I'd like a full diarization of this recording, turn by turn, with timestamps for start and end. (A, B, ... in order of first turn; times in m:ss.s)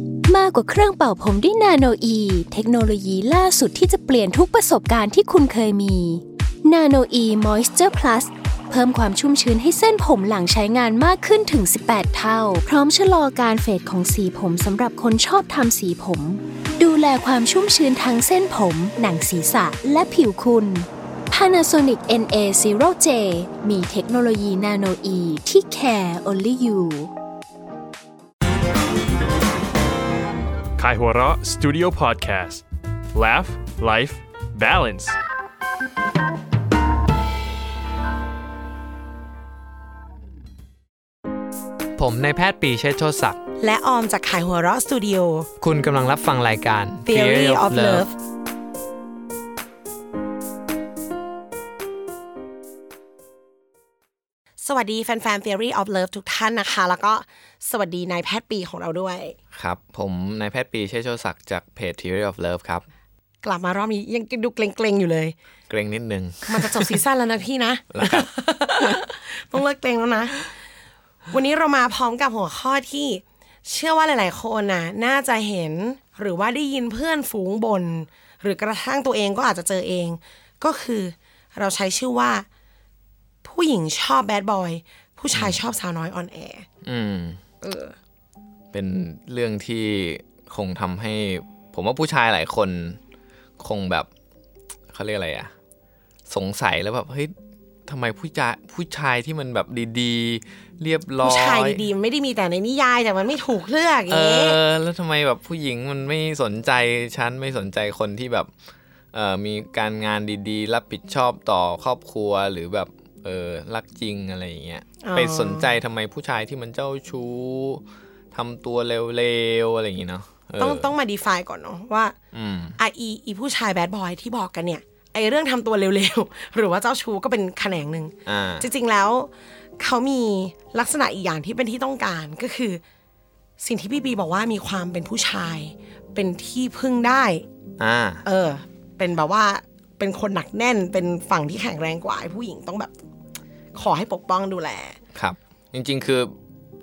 0:00.2-0:27.1 A
0:30.8-0:32.6 B
0:33.1-0:35.2 B
0:42.0-0:43.4 C
0:43.6-0:45.5 D
0:45.6-0:48.1 C
0:47.0-0:48.1 D
0:54.6-0:59.4 D
0:59.5-1:02.8 C
1:03.4-1:05.3 D
1:05.7-1:07.0 C
1:06.5-1:10.5 D
1:07.9-1:08.3 C
1:11.3-1:22.5 D
1:23.4-1:26.6 D
1:25.3-1:25.6 C
1:26.8-1:27.4 C
1:27.6-1:28.0 D
1:28.7-1:33.0 C
1:33.6-1:34.1 C
1:34.9-1:35.5 C
1:36.3-1:37.3 C
1:37.8-1:41.8 C
1:41.2-1:44.6 D
1:44.1-1:48.5 C
1:49.1-2:00.9 C
1:55.0-1:55.8 D
2:00.6-2:02.1 D
2:02.3-2:02.8 C
2:02.8-2:12.8 D
2:08.2-2:08.7 C
2:13.6-2:17.4 D
2:17.8-2:18.2 C
2:18.2-2:22.9 D
2:23.7-2:25.0 D
2:25.1-2:26.3 C